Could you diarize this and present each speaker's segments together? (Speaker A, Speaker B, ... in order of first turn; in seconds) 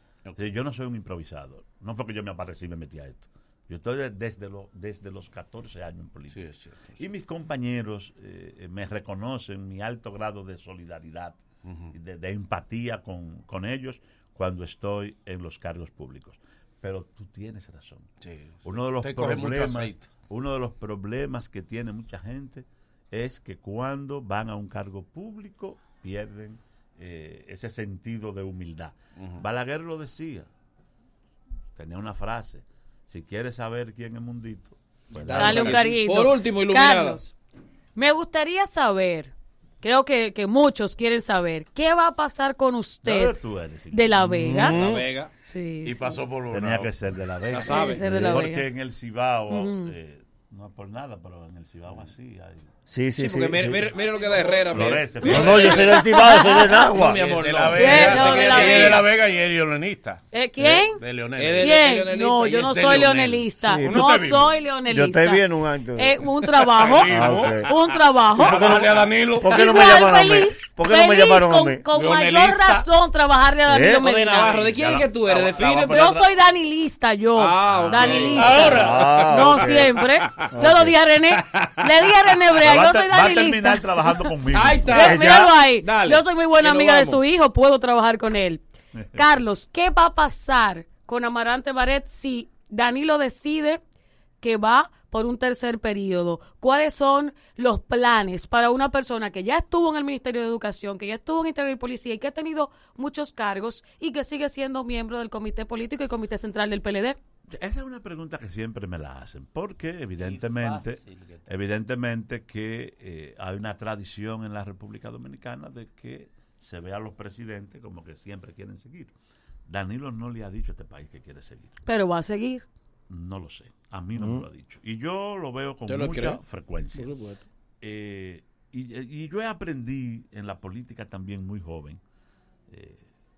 Speaker A: 0.4-11.4, 11.9-18.1, 18.6-30.5, 31.8-35.9, 43.0-44.5, 46.5-52.6, 54.7-56.0, 74.0-76.3, 77.6-78.7, 82.6-85.1, 107.5-119.1, 119.7-121.8, 123.1-127.1, 127.8-132.0, 132.7-133.1
Speaker B: 6.3-7.1, 11.7-11.9, 18.2-20.1, 29.2-29.4, 35.3-35.9, 45.8-46.9, 55.3-55.6, 57.0-60.2, 60.8-61.8, 62.5-64.5, 66.8-67.8, 68.4-70.0, 71.9-72.9, 78.0-79.5, 110.2-111.5
Speaker C: 35.2-37.2, 44.6-45.3, 47.5-48.0, 53.2-55.7, 56.7-59.0, 61.4-62.6, 74.1-76.1, 77.4-78.7, 84.5-87.2, 125.9-126.4, 126.9-127.4
Speaker D: 35.4-37.3, 38.0-43.4, 43.9-44.8, 45.5-46.2, 47.6-48.7, 49.5-49.9, 54.2-56.8, 57.8-59.0, 60.3-61.0, 61.6-65.4, 66.0-74.7, 75.8-84.4, 84.9-88.6, 89.1-93.8, 94.4-107.2, 121.8-122.7
Speaker E: 44.2-45.0, 48.0-48.4, 52.9-53.9, 55.2-57.2, 63.6-64.1, 64.9-66.2, 67.0-67.7, 68.4-71.8, 73.7-74.1, 78.6-80.0, 80.5-81.0, 84.9-85.5, 124.2-124.4